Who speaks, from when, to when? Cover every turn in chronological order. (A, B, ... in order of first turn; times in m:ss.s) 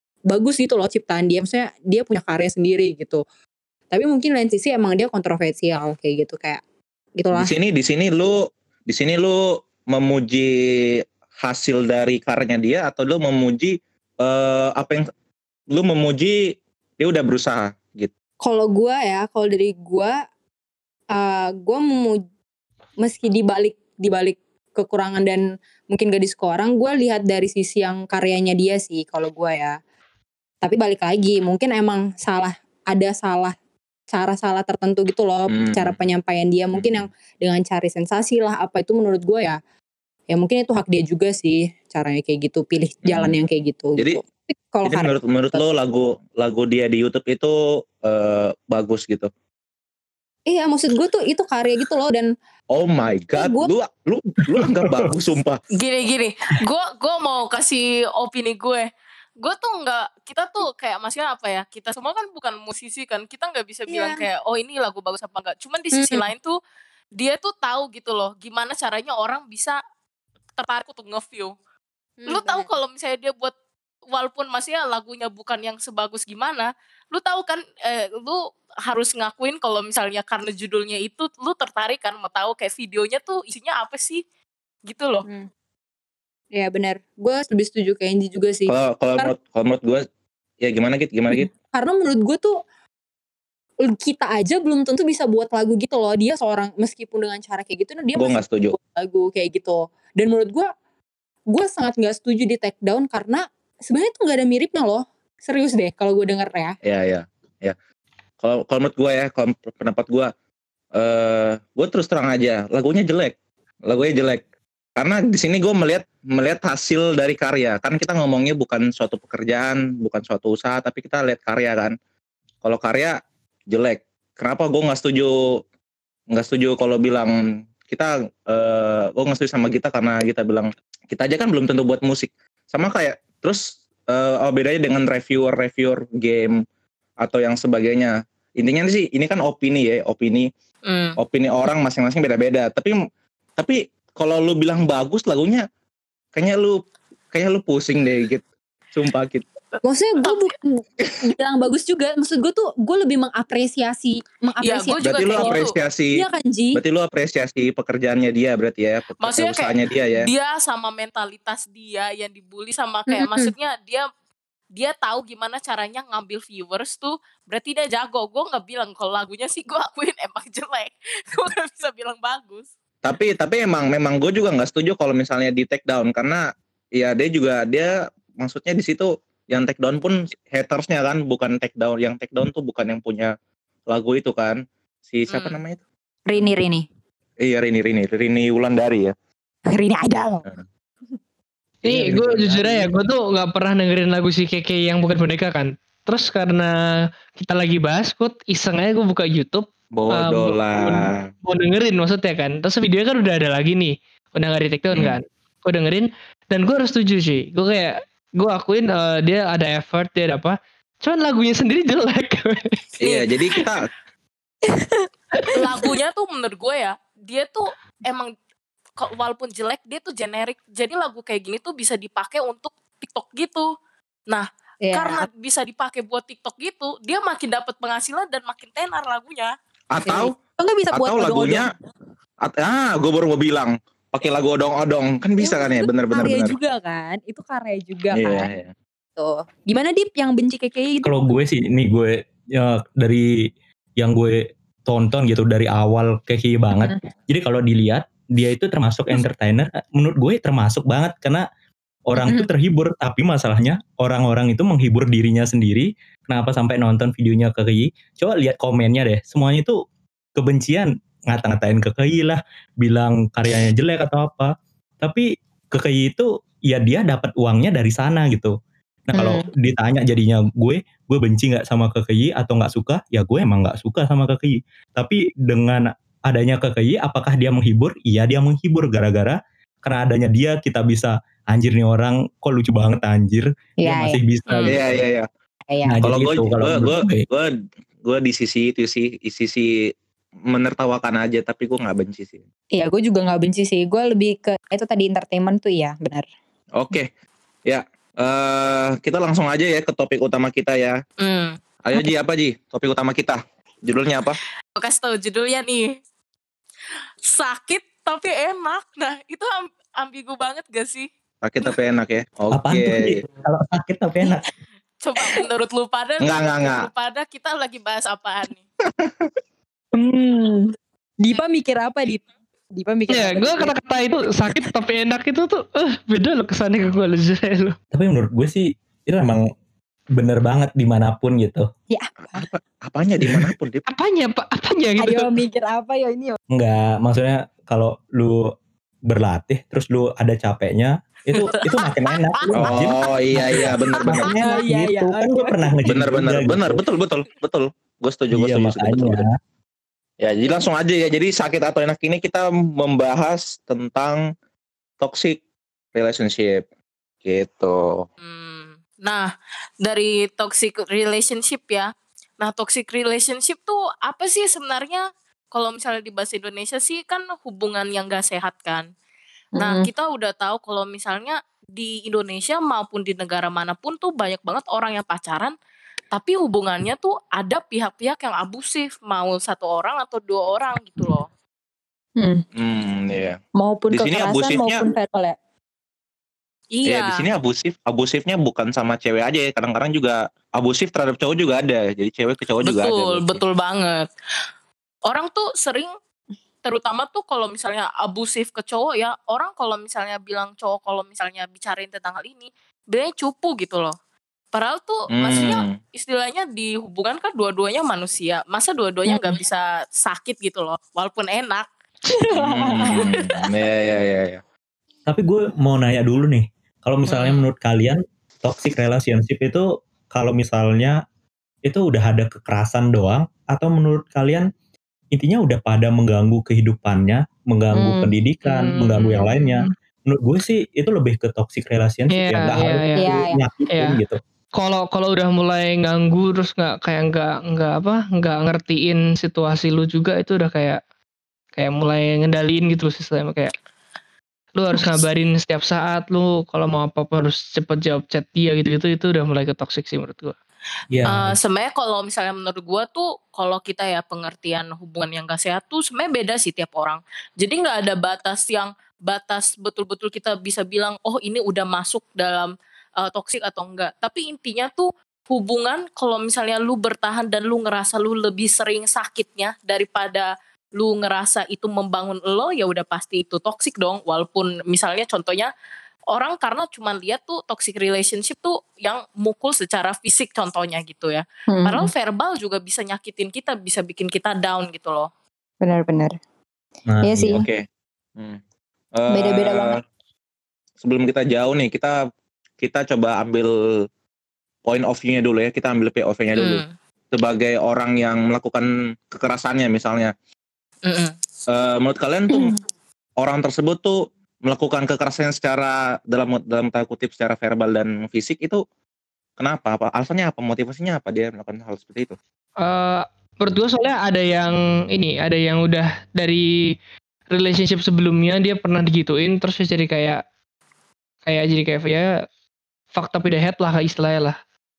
0:00.3-0:03.2 A
0:03.9-0:06.6 A
0:07.2-0:07.5 A
0:07.3-0:15.0 B
0:15.7-0:18.1 B
0:18.4-0:20.1 A
0:21.1-0:22.2 A
0:23.0-0:29.8 A
0:30.6-0:33.5 A
0:34.1-0:39.6 A
0:35.5-0:36.0 B
0:36.7-0:37.0 B
0:40.3-0:45.6 A
0:43.0-0:43.3 B
0:44.8-0:49.3 B
0:50.5-0:52.3 A
0:52.7-0:55.6 B
0:53.3-0:53.7 A
0:54.6-0:55.0 C
0:55.8-0:58.9 D
0:59.4-1:06.6 D
1:03.9-1:04.2 A
1:05.9-1:06.3 A
1:07.2-1:09.8 D
1:10.6-1:11.5 D
1:12.2-1:12.7 A
1:12.3-1:13.5 D
1:14.1-1:24.2 D
1:24.9-1:25.2 D
1:26.5-1:29.3 A
1:28.7-1:30.0 B
1:30.6-1:31.5 B
1:31.3-1:32.6 A
1:33.8-1:40.7 A
1:38.1-1:38.8 B
1:41.5-1:46.8 A
1:46.8-1:47.8 B
1:48.4-1:50.3 B
1:51.0-1:53.4 B
1:53.9-1:54.4 B
1:55.0-2:01.9 B
2:02.6-2:05.6 B
2:06.3-2:16.6 B
2:17.2-2:20.5 B
2:20.9-2:21.1 D
2:21.2-2:23.0 B
2:23.6-2:25.6 B
2:26.3-2:26.8 B
2:27.3-2:29.5 B
2:29.7-2:30.5 D
2:29.8-2:35.6 A
2:34.6-2:35.7 D
2:35.0-2:40.3 B
2:36.1-2:36.8 A
2:39.2-2:44.1 D
2:43.1-2:43.5 A
2:44.8-2:52.7 D
2:53.0-2:56.4 B
2:57.0-3:03.3 B
3:03.9-3:05.8 B
3:05.3-3:05.6 D
3:06.3-3:06.9 A
3:07.4-3:09.1 B
3:09.7-3:10.4 A
3:11.8-3:16.7 E
3:11.9-3:12.9 B
3:17.3-3:32.9 E
3:19.9-3:21.2 B
3:24.9-3:25.2 B
3:33.0-3:33.9 B
3:34.7-3:35.0 A
3:35.5-3:38.3 D
3:39.0-3:43.7 D
3:44.3-3:49.5 D
3:44.8-3:45.2 A
3:49.9-3:50.4 B
3:50.0-3:51.7 A
3:50.9-3:51.7 B
3:52.4-3:56.6 B
3:55.4-3:58.5 A
3:58.1-3:58.7 B
3:59.2-4:01.2 A
4:01.0-4:03.3 C
4:04.0-4:11.4 C
4:12.1-4:19.8 C
4:12.2-4:12.5 A
4:20.4-4:28.6 C
4:29.1-4:45.0 C
4:29.1-4:29.5 A
4:43.8-4:44.2 A
4:44.5-4:44.8 D
4:44.6-4:45.3 B
4:45.7-4:46.0 A
4:45.8-4:47.2 C
4:46.0-4:47.5 B
4:48.0-4:49.7 B
4:50.5-4:52.4 B
4:52.8-4:56.2 A
4:56.8-4:57.1 B
4:57.6-5:01.0 B
5:01.2-5:01.6 D
5:01.8-5:04.4 B
5:04.8-5:05.9 D
5:07.3-5:11.1 D
5:11.4-5:13.2 B
5:12.5-5:14.4 C
5:15.0-5:18.6 D
5:16.2-5:16.9 B
5:18.9-5:19.3 B
5:19.9-5:22.2 A
5:22.8-5:23.8 A
5:23.1-5:27.8 E
5:27.9-5:29.5 C
5:30.1-5:31.7 C
5:31.9-5:32.4 A
5:32.2-5:33.8 B
5:33.9-5:35.4 E
5:35.0-5:36.4 A
5:36.5-5:38.5 C
5:39.1-5:46.8 C
5:41.4-5:41.8 D
5:42.5-5:44.4 B
5:44.1-5:45.7 A
5:45.9-5:49.2 B
5:48.3-5:49.3 C
5:50.2-5:54.2 B
5:55.0-5:55.4 B
5:55.9-5:56.6 B
5:57.2-5:58.1 B
5:58.2-5:59.3 D
5:59.8-6:08.9 D
6:09.6-6:09.9 A
6:09.6-6:15.5 D
6:16.1-6:21.3 D
6:22.2-6:22.4 A
6:22.6-6:23.4 B
6:23.6-6:25.4 A
6:23.9-6:24.9 B
6:26.7-6:27.2 D
6:26.9-6:33.4 B
6:32.6-6:34.1 D
6:35.0-6:35.9 D
6:36.6-6:44.0 D
6:44.5-6:53.4 D
6:45.1-6:45.8 B
6:49.1-6:49.4 A
6:52.3-6:54.4 B
6:55.1-7:01.0 C
6:57.1-6:57.4 D
7:01.6-7:04.5 C
7:05.1-7:14.2 C
7:07.8-7:08.1 A
7:08.4-7:09.7 E
7:12.1-7:13.1 E
7:13.0-7:13.4 A
7:13.7-7:14.0 E
7:14.6-7:20.8 E
7:21.6-7:23.5 E
7:24.6-7:30.4 E
7:30.9-7:31.4 C
7:31.1-7:55.5 D
7:56.1-8:05.1 D
8:01.5-8:01.9 A
8:05.6-8:06.2 A
8:06.9-8:07.4 C
8:07.0-8:07.4 A
8:07.3-8:08.4 B
8:08.9-8:09.8 B
8:09.1-8:09.8 A
8:10.8-8:12.0 B
8:12.6-8:13.5 B
8:14.6-8:20.1 B
8:16.4-8:16.7 D
8:20.9-8:21.1 D
8:21.5-8:22.6 B
8:23.2-8:28.6 B
8:29.4-8:32.2 B
8:32.6-8:36.5 E
8:37.3-8:40.2 E
8:41.2-8:42.1 E
8:42.9-8:44.4 E